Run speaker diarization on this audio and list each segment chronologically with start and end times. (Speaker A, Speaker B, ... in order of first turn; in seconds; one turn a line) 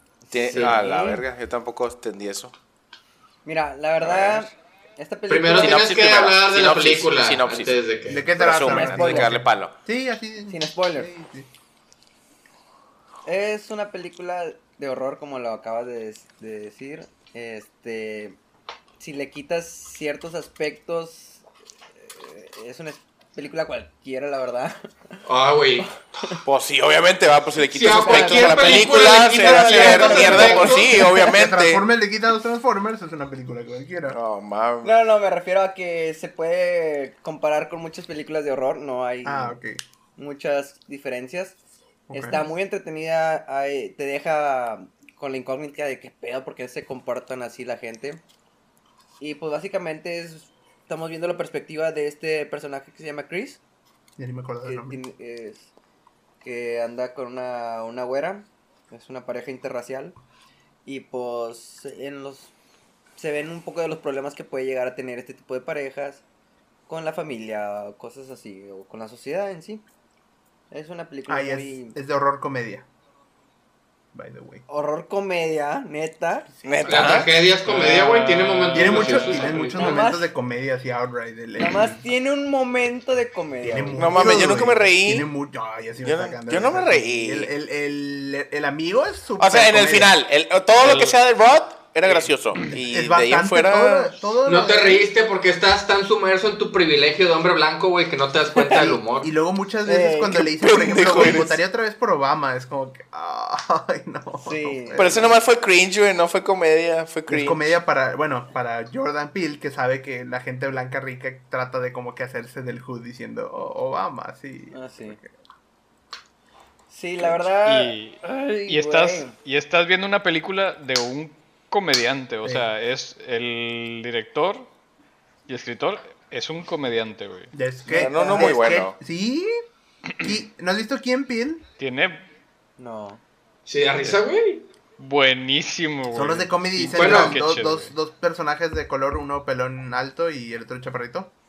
Speaker A: 0.3-1.2
Speaker B: 0.3-2.5
Speaker C: 0.5-0.8
Speaker A: 3.5-5.9
Speaker B: 4.0-4.5
Speaker C: 5.3-8.3
Speaker B: 5.6-7.8
Speaker D: 8.1-11.5
Speaker B: 8.3-9.7
Speaker A: 8.6-9.4
Speaker A: 10.5-11.1
Speaker A: 13.2-18.4
Speaker A: 19.0-21.4
Speaker A: 22.0-24.9
Speaker C: 25.3-25.9
Speaker B: 26.4-31.8
Speaker C: 27.6-30.8
Speaker A: 27.9-29.1
Speaker D: 29.3-34.2
Speaker A: 29.7-31.3
Speaker B: 34.1-35.0
Speaker A: 34.8-39.6
Speaker D: 39.2-39.8
Speaker A: 40.2-41.6
Speaker D: 42.1-42.5
Speaker A: 42.1-48.2
Speaker A: 49.2-53.6
Speaker D: 54.2-55.0
Speaker A: 54.6-55.7
Speaker A: 56.4-60.2
Speaker A: 60.9-62.5
Speaker A: 63.2-66.2
Speaker A: 66.9-69.8
Speaker A: 70.7-72.0
Speaker D: 71.3-72.9
Speaker D: 74.1-74.6
Speaker A: 74.7-76.5
Speaker B: 76.6-77.3
Speaker C: 76.8-79.9
Speaker E: 77.6-79.5
Speaker D: 78.7-82.0
Speaker A: 79.7-80.3
Speaker A: 81.6-84.4
Speaker D: 83.6-90.1
Speaker B: 84.0-85.3
Speaker B: 86.0-87.5
Speaker B: 89.4-94.1
Speaker D: 92.6-95.1
Speaker C: 94.5-99.3
Speaker D: 98.7-105.3
Speaker A: 99.9-100.4
Speaker B: 100.5-101.6
Speaker A: 104.4-105.3
Speaker B: 105.0-107.7
Speaker D: 107.3-115.3
Speaker A: 114.7-115.2
Speaker A: 116.9-119.3
Speaker E: 117.6-124.7
Speaker D: 122.4-122.7
Speaker E: 125.5-127.5
Speaker D: 127.5-129.5
Speaker A: 127.9-128.6
Speaker B: 127.9-129.0
Speaker D: 130.2-131.7
Speaker E: 131.8-132.3
Speaker A: 132.8-133.2
Speaker C: 133.7-134.7
Speaker E: 135.0-137.9
Speaker D: 136.1-141.3
Speaker C: 136.9-137.4